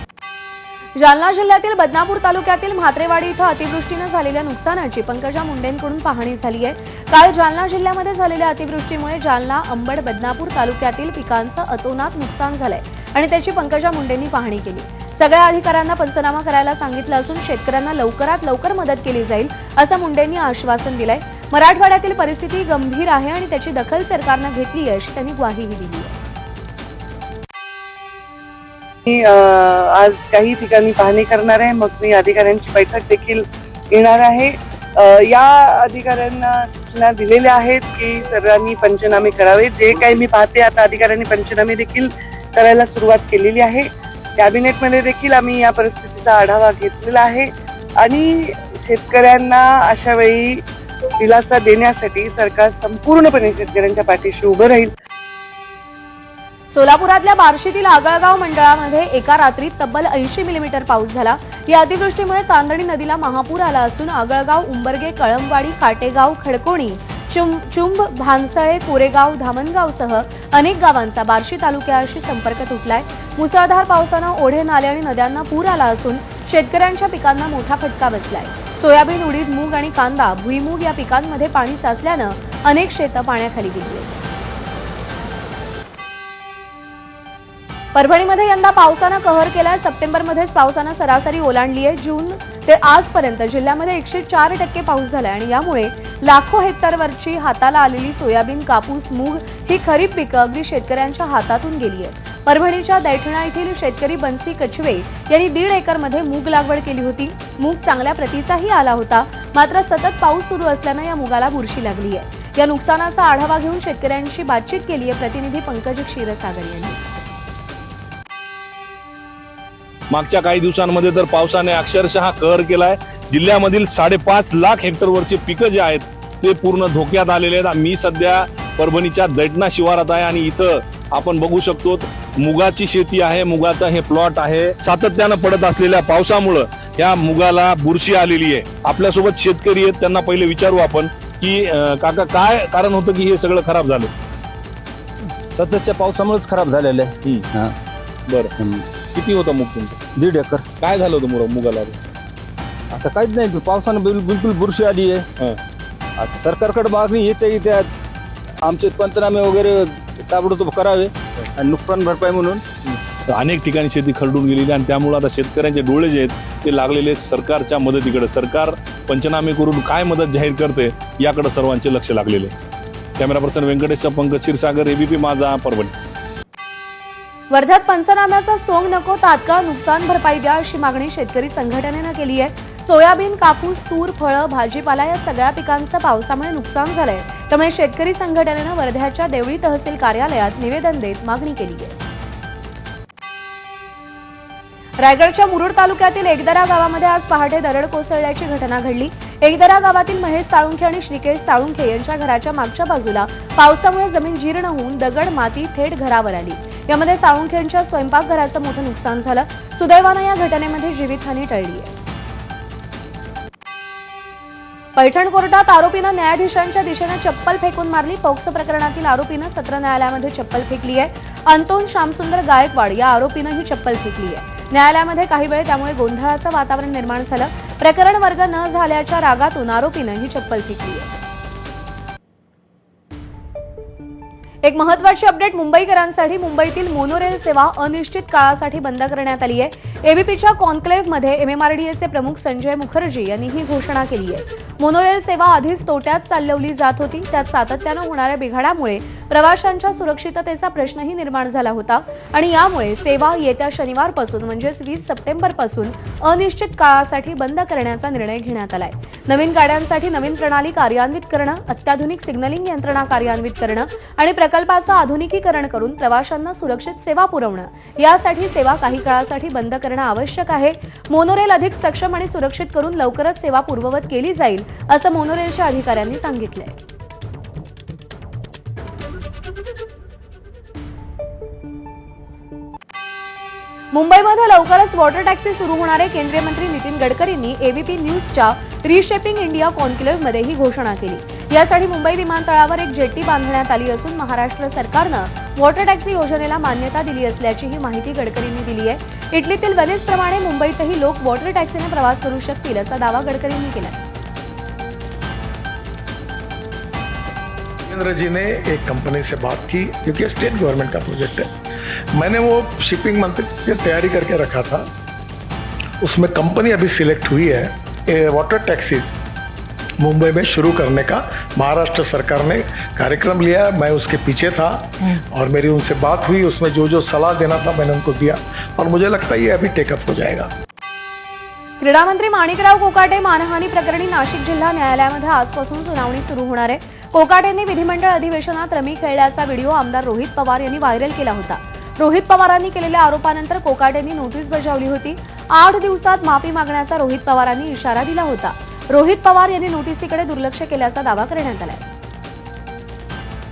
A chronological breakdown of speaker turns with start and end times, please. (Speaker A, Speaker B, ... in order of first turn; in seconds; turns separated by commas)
Speaker A: 1.0-26.2, Speaker B: 29.1-43.9, Speaker B: 44.4-47.5, Speaker B: 48.0-50.6, Speaker B: 51.2-54.9, Speaker A: 56.7-84.1, Speaker A: 87.9-117.0, Speaker C: 120.1-144.1, Speaker D: 145.5-147.8, Speaker C: 148.3-148.5, Speaker D: 148.6-148.9, Speaker C: 149.1-150.0, Speaker D: 150.2-150.7, Speaker C: 150.8-152.1, Speaker D: 152.9-155.3, Speaker D: 156.2-157.9, Speaker D: 158.6-162.6, Speaker C: 162.9-172.5, Speaker C: 173.2-175.9, Speaker A: 177.5-192.0, Speaker A: 195.0-211.9, Speaker A: 215.0-231.1, Speaker A: 234.6-276.8, Speaker A: 283.9-304.0, Speaker E: 307.9-311.5, Speaker E: 312.1-314.9, Speaker E: 316.0-319.1, Speaker E: 320.0-330.5, Speaker A: 331.8-351.8